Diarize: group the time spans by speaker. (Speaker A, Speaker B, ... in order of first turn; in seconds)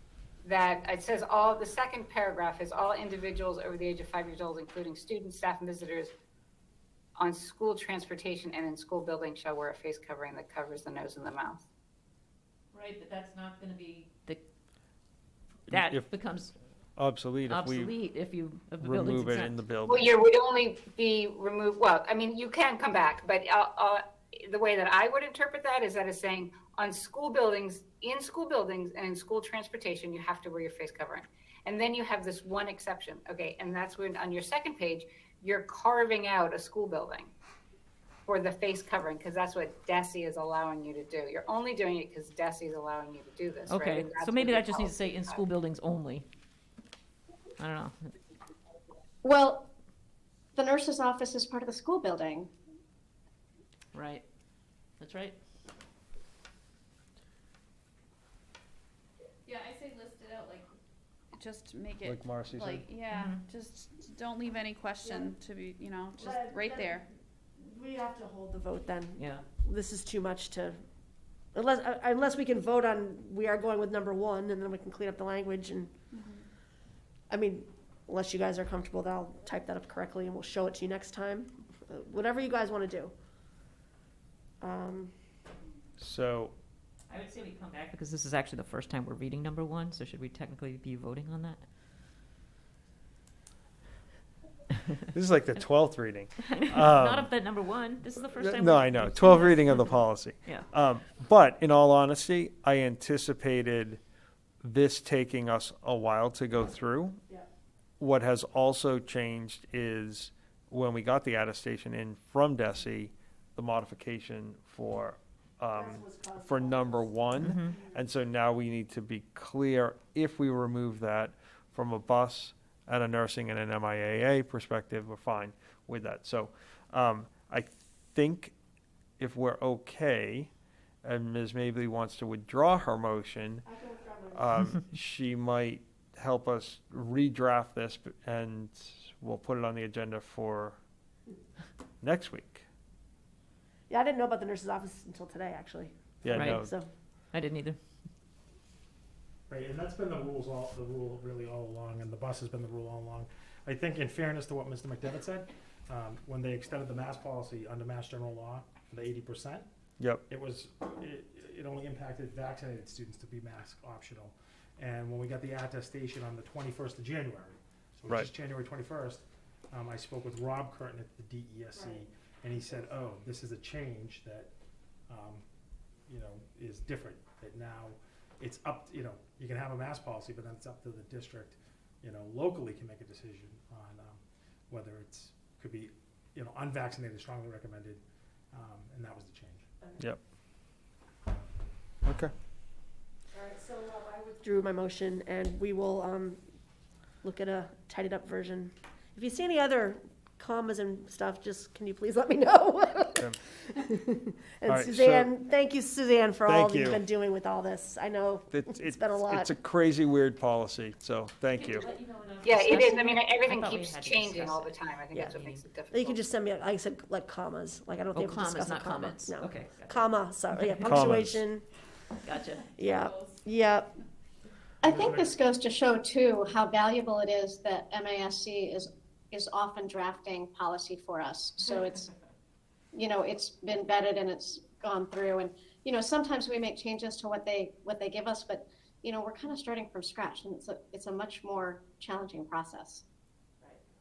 Speaker A: 0.4-6.1, 7.2-11.6, 19.9-37.3, 38.3-45.4, 212.4-216.2
Speaker B: 12.7-14.4, 15.7-16.5, 17.5-19.6, 43.7-46.3, 47.6-48.1, 53.9-54.2, 55.0-55.4, 63.1-63.4, 69.2-69.4, 87.1-91.7, 96.4-100.0, 117.4-117.8, 146.3-146.7, 147.3-147.8, 211.6-214.8, 215.3-215.6, 218.1-220.1, 222.2-222.7
Speaker C: 15.7-16.1, 17.0-17.9, 18.8-20.1, 62.0-62.9, 86.0-86.5, 95.1-97.3, 98.4-104.0, 104.6-107.2, 108.0-128.5, 129.2-130.5, 131.0-133.7, 134.3-140.8, 142.0-142.7, 146.2-146.7, 160.0-160.2, 192.1-192.3, 204.7-205.3, 206.4-207.0, 208.5-211.9, 220.8-221.4
Speaker D: 49.2-49.7, 50.5-52.5, 224.8-232.1, 232.9-243.0
Speaker E: 59.5-60.7, 61.3-67.0, 76.1-76.4
Speaker F: 65.0-65.3, 66.2-67.0, 67.6-70.8, 71.5-75.9, 77.3-83.1, 84.6-85.1, 115.7-117.2, 133.7-134.5, 143.9-146.9, 171.8-172.1, 193.3-196.4, 197.2-209.6, 215.9-221.7, 222.8-223.9
Speaker G: 149.5-159.7, 160.3-174.5, 175.1-175.4, 176.1-189.7, 224.8-225.3